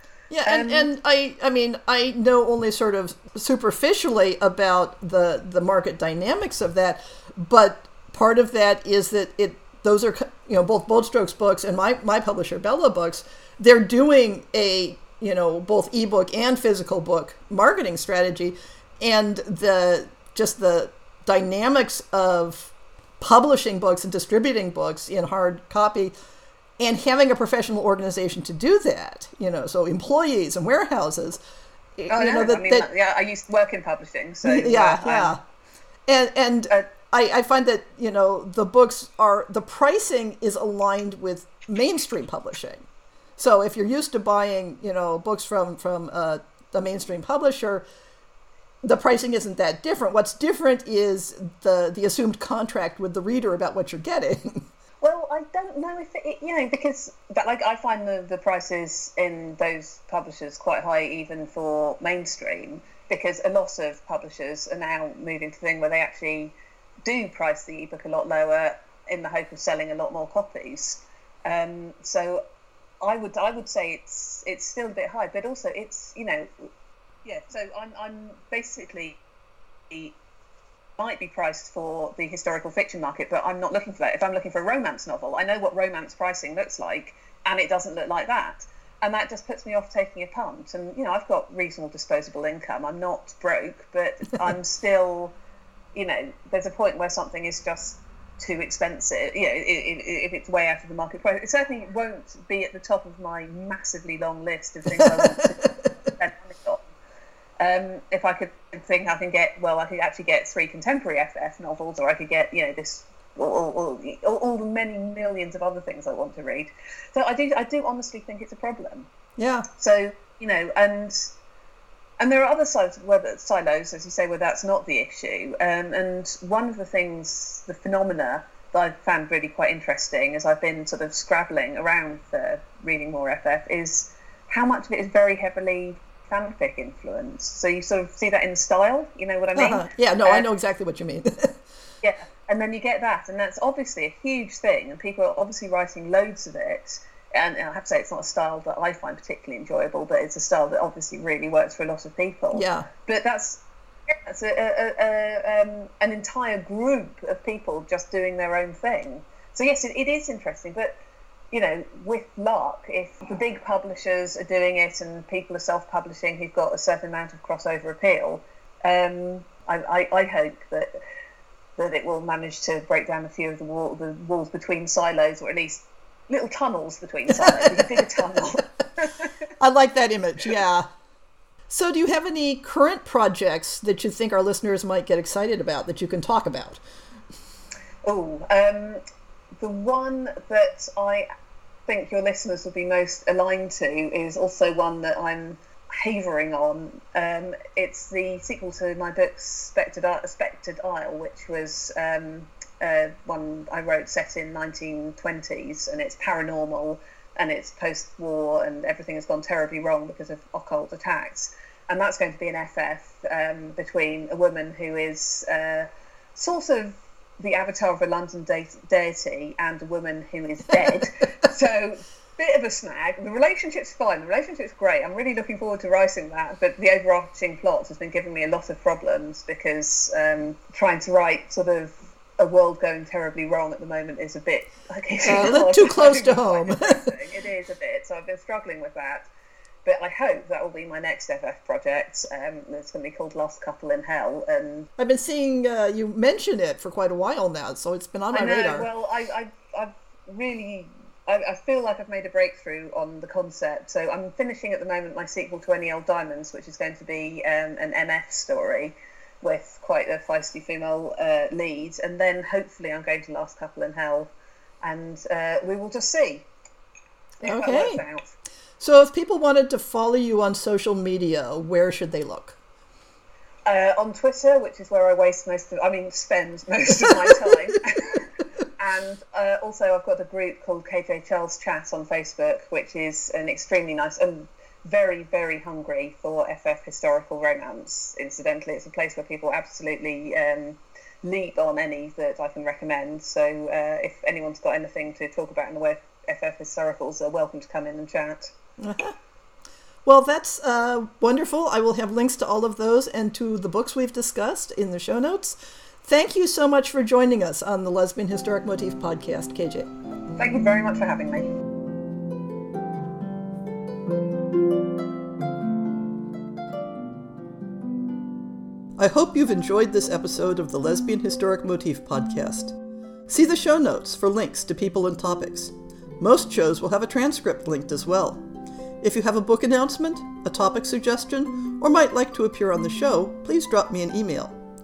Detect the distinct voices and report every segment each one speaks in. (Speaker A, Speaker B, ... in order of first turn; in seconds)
Speaker A: 0.3-26.1, 26.8-31.4, 32.0-32.9, 34.4-35.4, 36.1-42.8, 43.4-47.8, 48.8-54.6, 104.9-105.7, 119.4-119.7, 139.6-141.6, 152.5-152.9, 177.4-178.0, 179.6-180.8, 181.7-186.8, 235.2-237.0, 245.0-248.9, 267.4-268.0, 268.8-272.6, 298.8-299.1, 300.0-309.9, 319.0-322.7, 323.3-328.4, 329.0-334.6
Speaker B: 0.5-0.9, 32.1-35.4, 55.0-66.5, 67.0-72.4, 73.0-76.7, 77.2-79.2, 81.0-95.3, 95.9-106.9, 107.6-119.1, 119.8-121.3, 122.2-140.4, 142.0-160.9, 161.5-171.0, 171.8-179.3, 188.0-189.0, 189.6-191.2, 191.9-239.3, 239.8-244.9, 248.3-264.3, 264.8-266.4, 267.4-268.3, 273.7-298.5, 310.4-311.5